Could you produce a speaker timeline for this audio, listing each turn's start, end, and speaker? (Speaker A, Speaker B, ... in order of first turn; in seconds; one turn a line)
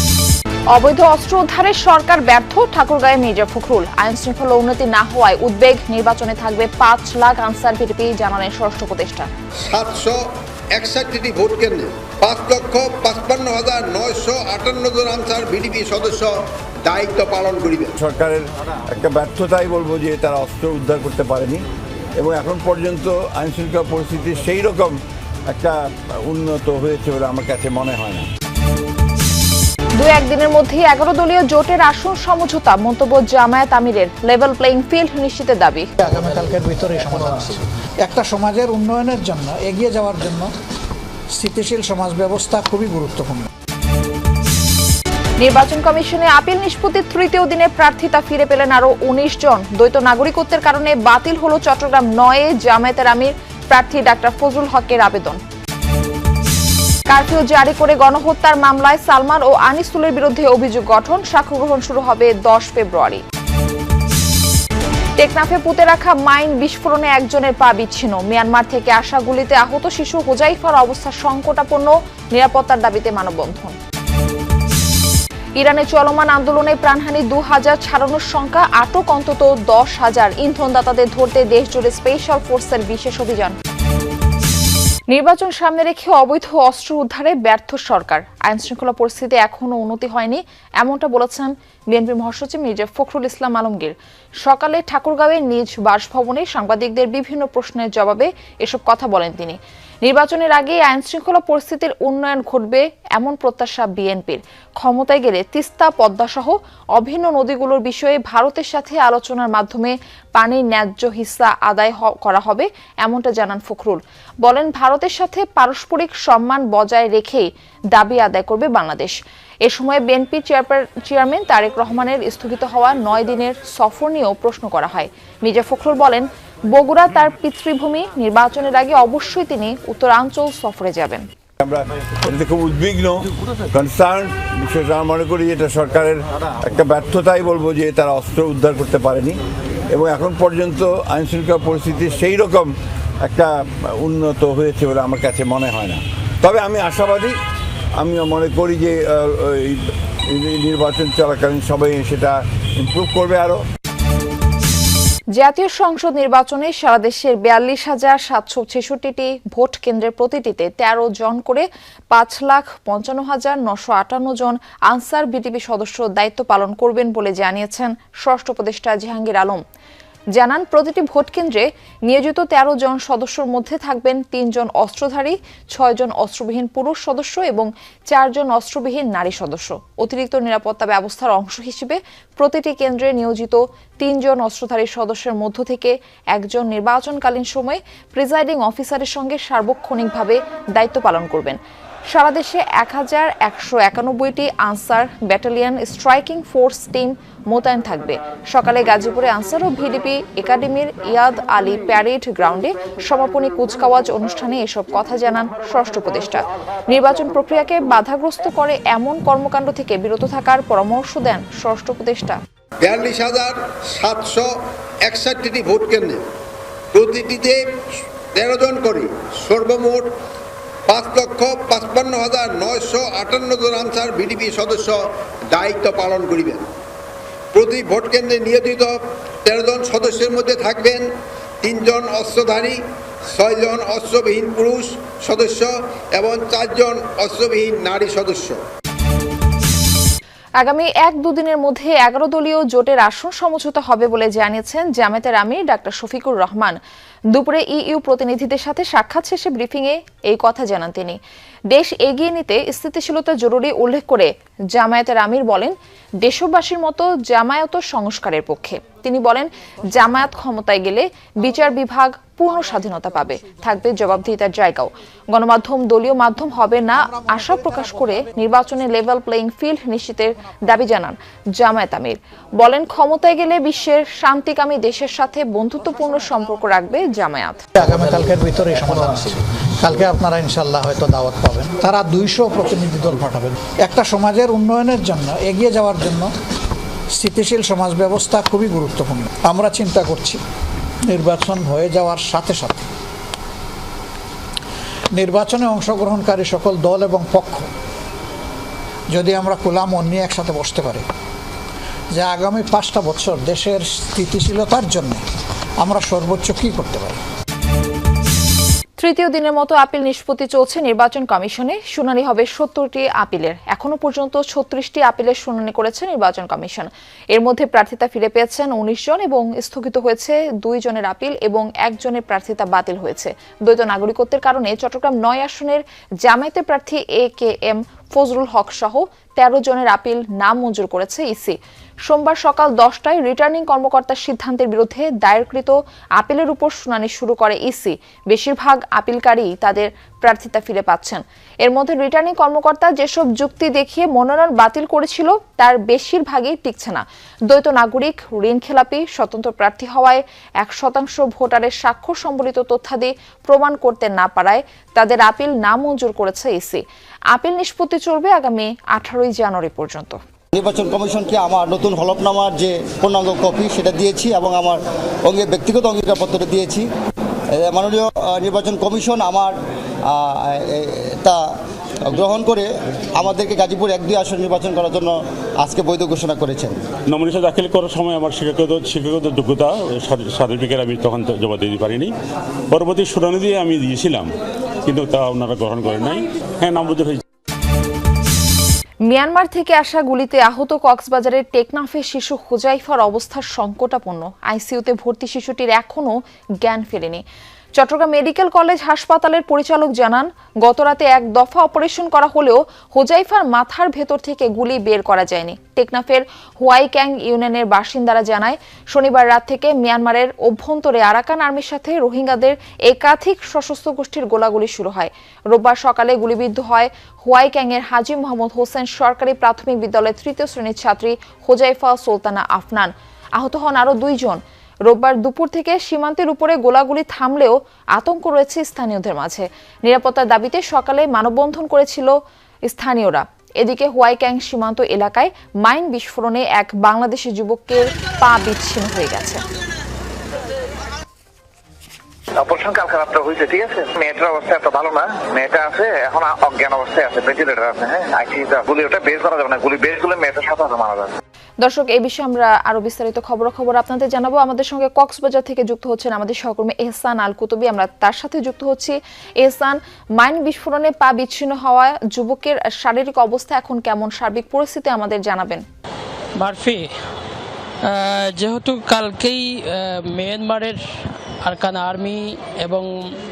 Speaker A: 0.7-9.3
Speaker B: 9.7-10.2
Speaker B: 10.7-17.9
Speaker C: 18.0-21.6
Speaker C: 22.2-28.3
Speaker A: 30.0-35.9
Speaker D: 36.0-40.5
Speaker D: 41.4-43.5
Speaker A: 45.4-55.4
Speaker A: 57.1-63.2
Speaker A: 65.2-73.7
Speaker A: 75.6-83.6
Speaker A: 85.1-131.3
Speaker C: 131.6-139.4
Speaker C: 139.9-147.3
Speaker C: 148.0-153.6
Speaker A: 155.4-169.6
Speaker A: 170.3-212.4
Speaker B: 212.8-214.5
Speaker B: 215.0-216.2
Speaker B: 216.9-220.1
Speaker B: 220.9-226.7
Speaker B: 227.5-231.1
Speaker B: 231.6-238.6
Speaker A: 240.6-246.8
Speaker A: 247.3-251.2
Speaker A: 251.7-277.6
Speaker D: 277.7-286.3
Speaker D: 287.2-290.4
Speaker D: 291.1-292.9
Speaker D: 295.1-297.7
Speaker D: 299.1-301.0
Speaker D: 302.1-305.2
Speaker D: 305.8-307.2
Speaker A: 309.0-360.2
Speaker E: 360.5-366.9
Speaker E: 367.5-369.5
Speaker E: 370.0-371.4
Speaker E: 372.0-376.8
Speaker F: 377.1-382.1
Speaker F: 382.7-384.3
Speaker F: 384.8-387.2
Speaker A: 389.1-397.2
Speaker A: 397.8-432.1
Speaker A: 432.6-439.4
Speaker G: 442.4-451.1
Speaker A: 451.6-465.6
Speaker H: 466.4-466.9
Speaker H: 467.8-470.8
Speaker H: 471.4-473.1